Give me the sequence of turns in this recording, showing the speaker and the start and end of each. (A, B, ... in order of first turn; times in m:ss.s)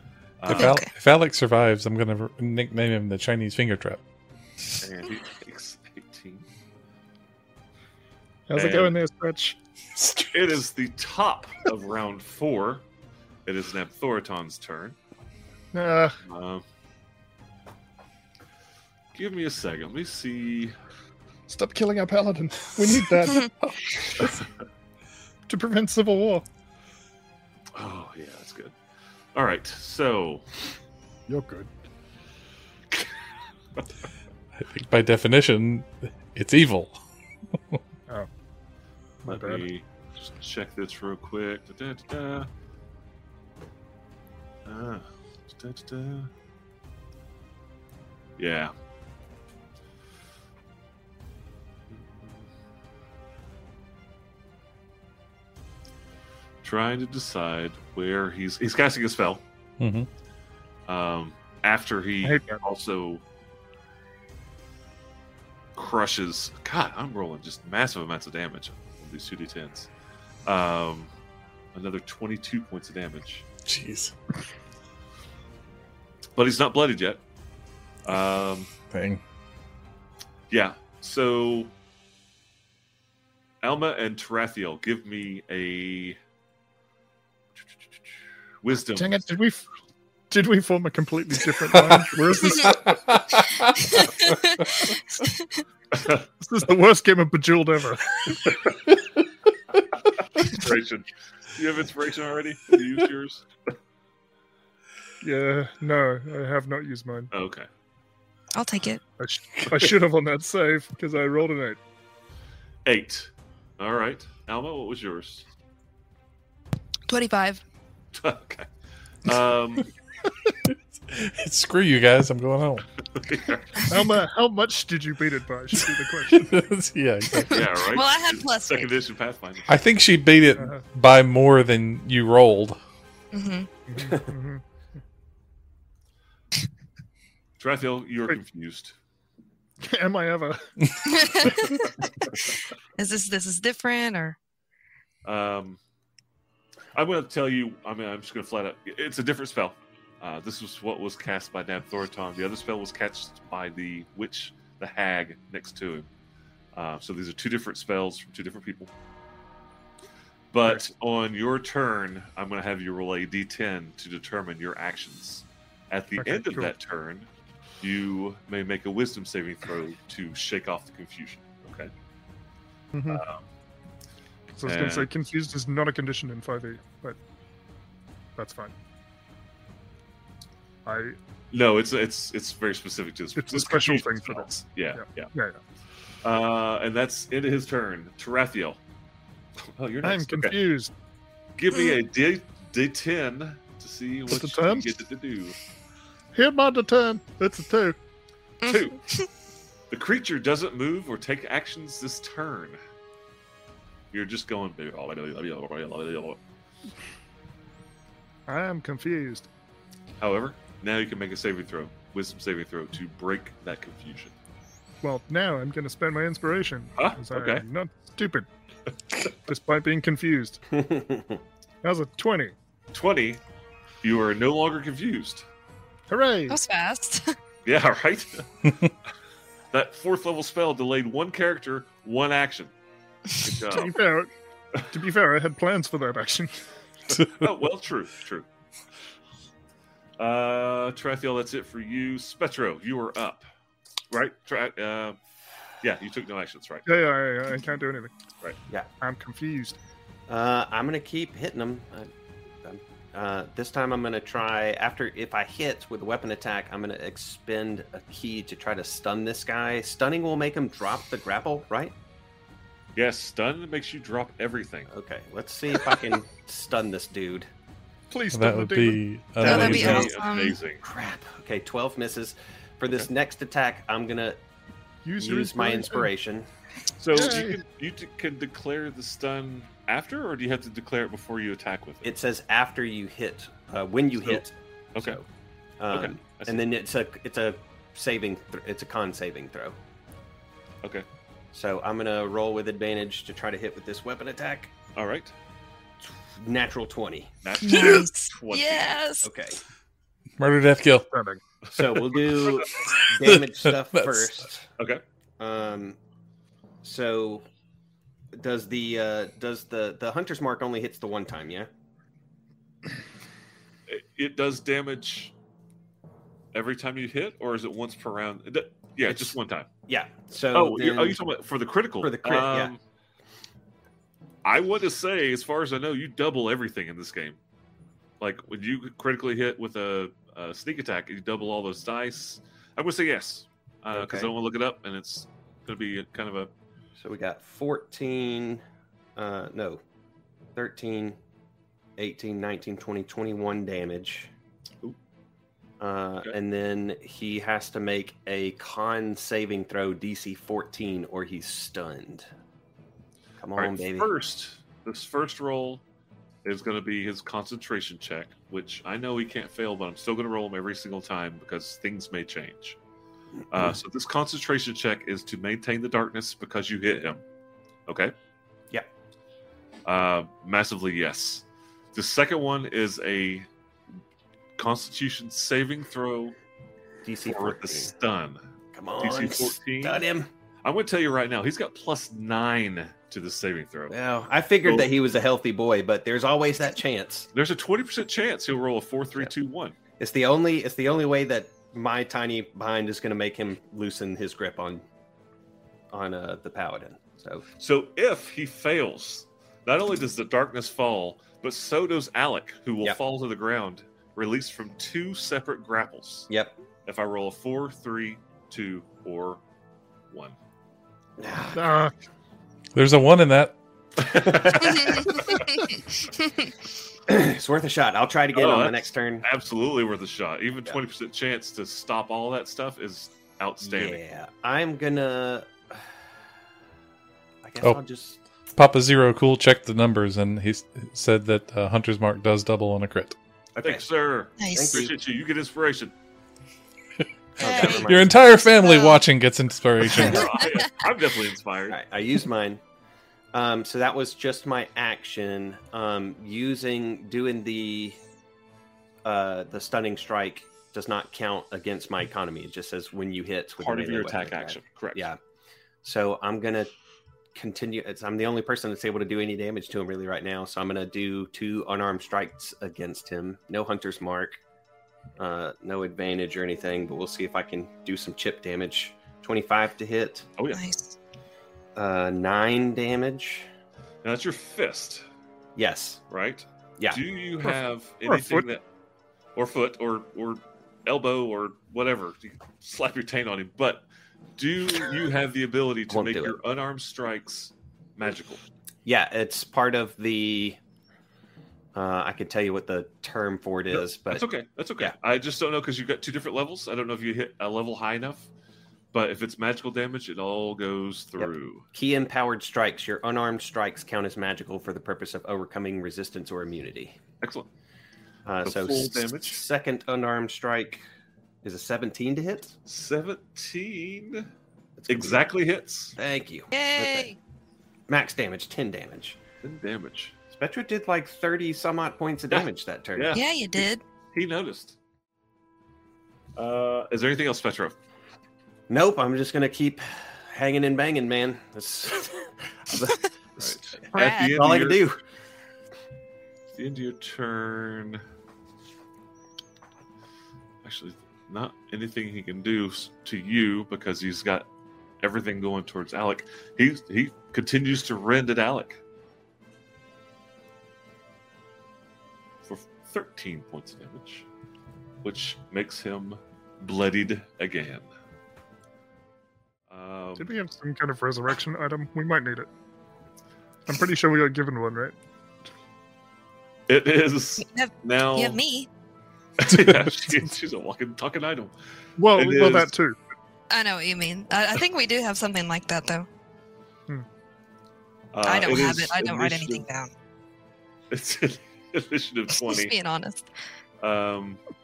0:00.4-0:00.8 A
0:00.5-0:04.0 B
0:00.5-0:00.9 C
0:04.8-0:06.5 A
0:08.5-0:09.6 D
0:08.5-0:08.9 A
0:10.3-0:12.8 A
0:13.4-0:15.0 A
0:15.7-0:16.2 D
0:16.2-0:16.6 A
0:19.1-0:20.7 A
0:21.5-0:24.4 D
0:25.5-0:26.4 D
0:27.7-0:28.7 A
0:29.3-0:30.4 A
0:31.3-0:31.7 D
0:34.6-0:37.0 B
0:39.2-0:39.6 D
0:39.2-0:42.5 A
0:44.6-0:46.3 A
0:48.4-0:48.7 A
0:51.9-0:52.5 A
0:56.6-0:59.4 A
0:59.8-1:00.1 B
1:00.9-1:03.2 A
1:02.2-1:02.6 D
1:05.8-1:09.9 A
1:10.4-1:11.1 A
1:11.7-1:13.4 A
1:13.6-1:14.1 B
1:16.4-1:17.2 A
1:18.0-1:18.7 A
1:18.9-1:19.2 B
1:20.5-1:21.7 A
1:23.6-1:26.2 A
1:28.6-1:29.2 A
1:29.0-1:29.6 D
1:30.3-1:32.9 D
1:31.7-1:34.1 B
1:34.2-1:35.4 C
1:35.9-1:36.2 A
1:36.4-1:38.2 D
1:38.4-1:38.7 A
1:40.4-1:43.4 A
1:45.2-1:47.3 D
1:47.3-1:47.7 A
1:48.5-1:49.0 C
1:49.2-1:51.8 D
1:52.8-1:55.4 A
1:57.1-1:57.6 C
1:58.1-1:58.7 A
1:59.2-1:59.9 A
2:00.7-2:02.8 B
2:03.1-2:03.9 A
2:03.9-2:06.6 D
2:06.3-2:07.6 B
2:07.4-2:08.9 C
2:07.5-2:09.7 A
2:09.7-2:12.8 B
2:13.3-2:13.7 C
2:13.9-2:14.6 D
2:14.0-2:14.3 E
2:17.6-2:18.9 A
2:19.8-2:21.5 D
2:21.0-2:21.9 C
2:23.0-2:24.4 C
2:25.2-2:25.8 A
2:26.9-2:36.1 A
2:36.7-2:38.9 A
2:40.5-2:47.3 A
2:46.2-2:46.7 D
2:47.8-2:51.9 A
2:52.9-2:53.2 D
2:53.1-2:53.4 A
2:54.6-2:57.2 D
2:54.6-2:55.1 A
2:58.4-2:58.7 D
3:00.8-3:01.2 D
3:01.5-3:05.3 A
3:03.4-3:05.6 D
3:06.2-3:08.8 A
3:09.8-3:10.6 A
3:10.0-3:10.9 D
3:11.6-3:15.6 A
3:14.3-3:14.9 D
3:16.3-3:18.0 D
3:18.6-3:19.2 C
3:18.6-3:19.0 A
3:19.9-3:22.8 A
3:24.1-3:26.4 A
3:28.5-3:29.5 D
3:30.2-3:34.3 A
3:35.0-3:38.5 D
3:37.0-3:37.6 A
3:39.4-3:40.6 D
3:40.7-3:41.4 E
3:41.8-3:42.5 D
3:42.9-3:43.4 A
3:44.0-3:45.4 A
3:46.1-3:46.6 D
3:46.5-3:47.3 C
3:47.6-3:48.8 A
3:49.7-3:52.7 A
3:53.4-3:54.0 A
3:53.7-3:54.3 D
3:54.9-3:56.6 D
3:57.1-3:58.5 A
4:00.2-4:03.4 A
4:04.1-4:05.2 A
4:05.8-4:06.8 A
4:06.8-4:08.1 D
4:09.0-4:09.8 D
4:10.3-4:12.1 E
4:12.6-4:21.9 E
4:23.0-4:24.9 A
4:24.9-4:27.5 E
4:28.1-4:29.0 D
4:28.3-4:30.0 B
4:29.4-4:30.6 C
4:29.4-4:30.8 A
4:29.5-4:30.1 E
4:30.8-4:34.4 E
4:35.0-4:36.1 D
4:35.2-4:36.5 E
4:37.0-4:42.1 A
4:37.1-4:37.6 D
4:42.0-4:45.2 E
4:45.8-4:49.8 E
4:45.9-4:46.6 A
4:51.5-4:54.7 E
4:54.9-4:55.3 A
4:56.0-4:57.3 E
4:57.4-4:59.0 A
4:57.6-4:59.3 C
4:59.2-4:59.6 E
5:00.4-5:01.1 B
5:01.1-5:01.4 D
5:01.7-5:04.7 E
5:02.3-5:02.6 A
5:03.2-5:04.3 B
5:05.4-5:06.0 E
5:06.8-5:07.4 E
5:08.3-5:11.7 E
5:13.9-5:15.3 A
5:16.5-5:19.7 A
5:19.1-5:19.4 E
5:19.9-5:21.2 E
5:20.5-5:22.8 A
5:22.0-5:22.7 E
5:24.4-5:27.4 A
5:28.2-5:36.5 A
5:33.9-5:34.3 E
5:37.0-5:38.6 E
5:39.2-5:39.8 E
5:40.5-5:41.2 E
5:42.0-5:44.3 E
5:45.8-5:52.2 E
5:53.4-5:54.1 E
5:53.6-5:55.8 A
5:56.4-6:02.8 A
6:03.5-6:07.2 A
6:03.5-6:03.8 E
6:07.9-6:08.1 A
6:09.8-6:13.5 A
6:14.6-6:16.4 A
6:17.0-6:17.9 E
6:17.2-6:18.4 A
6:18.7-6:20.3 E
6:19.0-6:20.0 A
6:20.6-6:23.9 A
6:23.9-6:27.3 E
6:24.6-6:24.9 A
6:27.3-6:29.8 A
6:30.0-6:34.8 E
6:35.9-6:37.4 E
6:37.6-6:46.3 A
6:46.3-6:46.6 E
6:46.8-6:49.4 A
6:50.1-6:50.4 A
6:51.2-6:51.8 E
6:51.5-6:51.9 D
6:52.7-6:53.6 B
6:54.0-6:55.4 A
6:54.1-6:55.4 E
6:54.8-6:55.1 C
6:57.1-6:59.3 E
6:58.3-7:04.0 A
7:03.6-7:05.9 E
7:07.4-7:08.2 E
7:08.5-7:13.2 B
7:13.5-7:13.8 E
7:13.6-7:15.9 A
7:14.4-7:14.8 C
7:14.4-7:14.9 E
7:17.4-7:18.4 E
7:17.4-7:17.9 C
7:17.7-7:20.3 B
7:18.6-7:19.0 C
7:19.9-7:21.8 A
7:20.0-7:20.2 E
7:20.1-7:20.6 C
7:21.7-7:22.6 E
7:23.3-7:28.0 E
7:29.0-7:35.2 E
7:33.6-7:35.1 A
7:35.8-7:36.7 E
7:37.3-7:44.4 E
7:45.2-7:50.3 E
7:50.4-7:50.6 A
7:50.5-7:51.0 C
7:51.8-7:53.5 E
7:54.0-7:55.0 A
7:55.6-7:56.0 E
7:56.1-7:58.6 A
7:58.0-7:58.5 D
7:59.3-8:03.8 A
8:04.4-8:08.4 A
8:05.9-8:06.4 E
8:08.8-8:10.6 E
8:11.7-8:14.2 E
8:13.7-8:18.3 A
8:18.9-8:21.6 A
8:21.2-8:27.0 E
8:27.2-8:27.5 A
8:28.2-8:30.8 E
8:28.4-8:29.4 A
8:31.4-8:32.5 E
8:32.6-8:34.3 A
8:34.8-8:35.2 E
8:34.9-8:36.0 A
8:36.0-8:37.1 E
8:36.5-8:37.2 C
8:37.9-8:39.2 E
8:39.4-8:40.2 A
8:40.3-8:43.2 E
8:42.3-8:44.8 A
8:43.1-8:43.8 C
8:46.4-8:47.8 A
8:48.7-8:55.0 E
8:53.4-8:54.8 A
8:53.9-8:54.3 C
8:56.5-8:58.0 A
9:00.6-9:04.5 A
9:05.0-9:08.8 A
9:12.4-9:14.2 A
9:15.0-9:17.9 A
9:19.7-9:20.3 A
9:20.2-9:22.5 D
9:23.7-9:25.0 D
9:26.7-9:28.4 A
9:27.4-9:28.7 C
9:29.4-9:31.5 A
9:32.0-9:33.0 D
9:32.1-9:32.7 A
9:33.5-9:36.1 C
9:38.1-9:39.6 A
9:38.2-9:39.9 C
9:40.9-9:42.8 A
9:42.4-9:43.2 C
9:43.8-9:44.4 A